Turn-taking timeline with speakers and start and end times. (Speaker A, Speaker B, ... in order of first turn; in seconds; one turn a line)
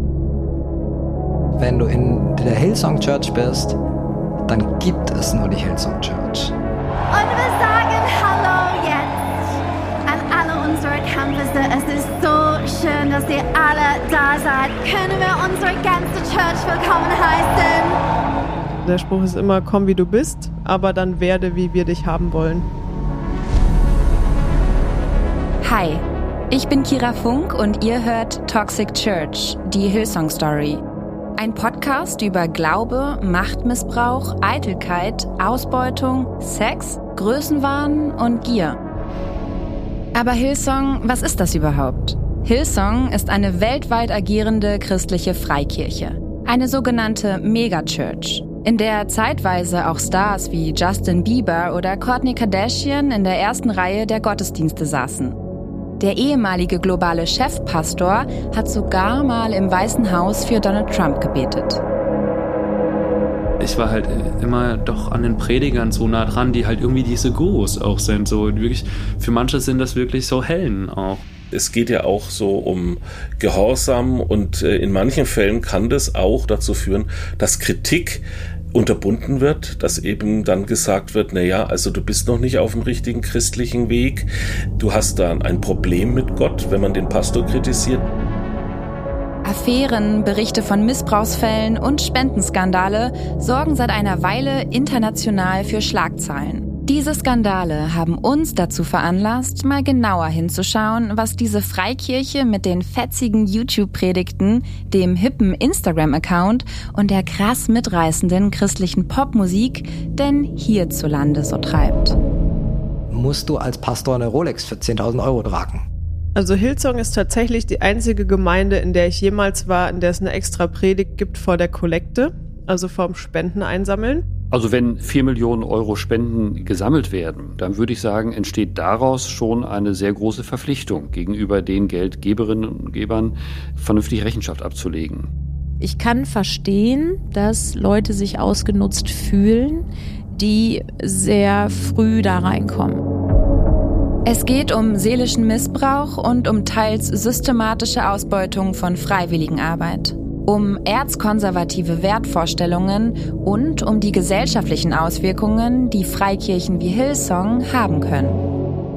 Speaker A: 1.6-3.8
Speaker A: 4.5-6.5
Speaker B: 7.1-18.0
Speaker C: 18.8-22.7
Speaker D: 25.6-30.8
Speaker D: 31.4-38.8
Speaker D: 40.1-55.4
Speaker D: 56.0-61.8
Speaker E: 63.6-71.2
Speaker F: 71.5-78.2
Speaker F: 78.7-84.3
Speaker F: 84.8-88.0
Speaker D: 89.4-112.2
Speaker A: 113.1-115.8
Speaker C: 116.4-124.2
Speaker G: 124.5-135.3
Speaker H: 135.8-139.8
Speaker H: 140.3-143.0
Speaker D: 144.2-158.4